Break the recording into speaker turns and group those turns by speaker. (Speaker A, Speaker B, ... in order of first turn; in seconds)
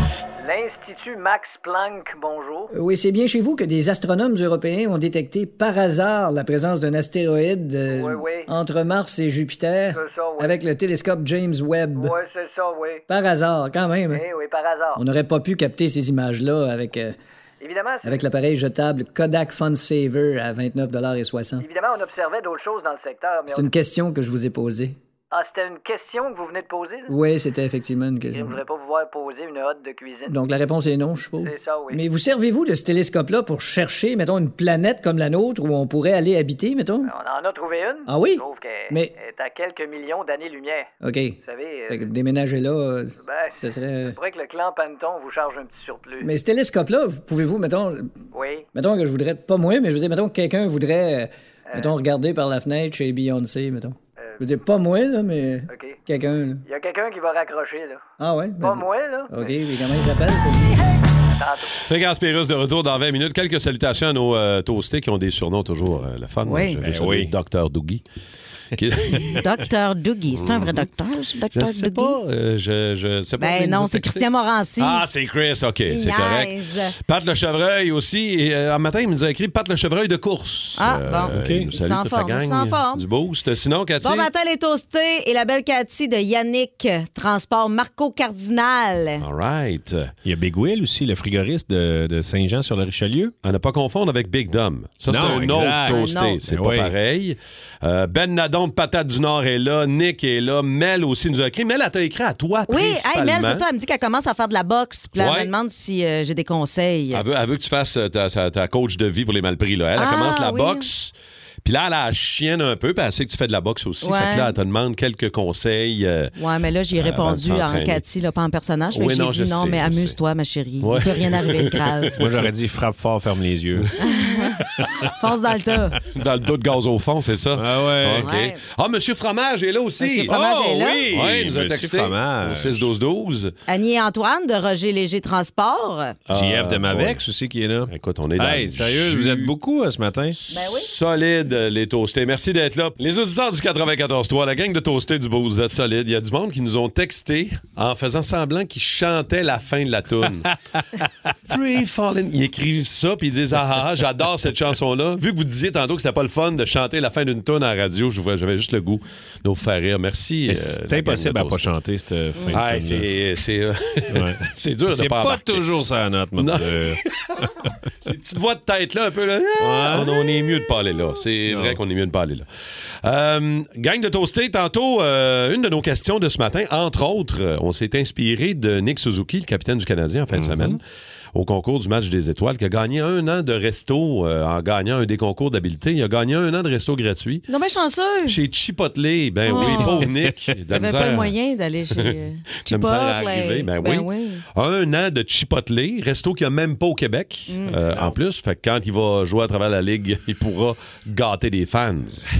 Speaker A: 0.4-2.7, 7.9-8.5, 9.9-10.6, 11.9-13.0, 14.1-15.0, 17.6-18.2, 21.6-23.7, 25.3-27.1, 28.3-30.3, 31.4-32.0, 37.0-40.9, 41.4-42.1, 43.2-46.3, 48.3-48.7, 51.7-52.0, 55.7-56.0, 56.6-58.0, 58.6-59.5, 61.3-61.8
Speaker B: 2.7-12.2, 13.1-14.3, 14.9-17.1, 18.0-21.6, 23.5-24.9, 27.1-28.6, 30.3-37.1, 38.0-39.1, 41.0-44.1, 46.2-48.1, 48.7-56.6, 58.2-60.8
Speaker C: 61.9-68.0, 68.7-69.4, 70.3-70.9, 71.5-74.2, 74.8-84.3, 89.2-90.1, 93.4-103.6, 105.2-105.5, 107.1-116.3, 116.9-118.0, 118.9-120.2, 120.8-122.3, 126.0-130.4, 131.1-133.5, 136.3-137.2, 137.9-139.5, 140.4-150.5, 151.5-161.7, 162.5-165.6, 166.3-167.3, 168.0-172.5, 173.0-180.8, 181.3-187.4, 188.2-191.3, 191.9-202.3
Speaker D: 66.4-66.8, 69.4-72.2, 73.4-75.0, 75.9-77.0, 80.8-83.0, 84.0-89.2, 95.8-96.4, 102.7-107.2, 110.0-110.9, 114.0-114.5, 116.4-122.1, 124.0-126.0, 128.2-128.6, 130.0-131.0, 133.7-136.2, 140.5-140.9, 187.5-188.4, 189.4-190.1, 190.7-194.4, 197.5-197.8
Speaker E: 66.8-67.3, 81.3-81.7, 90.2-93.3, 95.1-96.9, 122.2-123.9, 124.8-125.0, 127.5-128.3, 130.3-132.9, 136.3-140.4, 160.5-163.1, 164.1-167.0, 169.6-170.1, 171.5-171.8, 180.3-180.8, 189.6-190.5, 197.7-198.1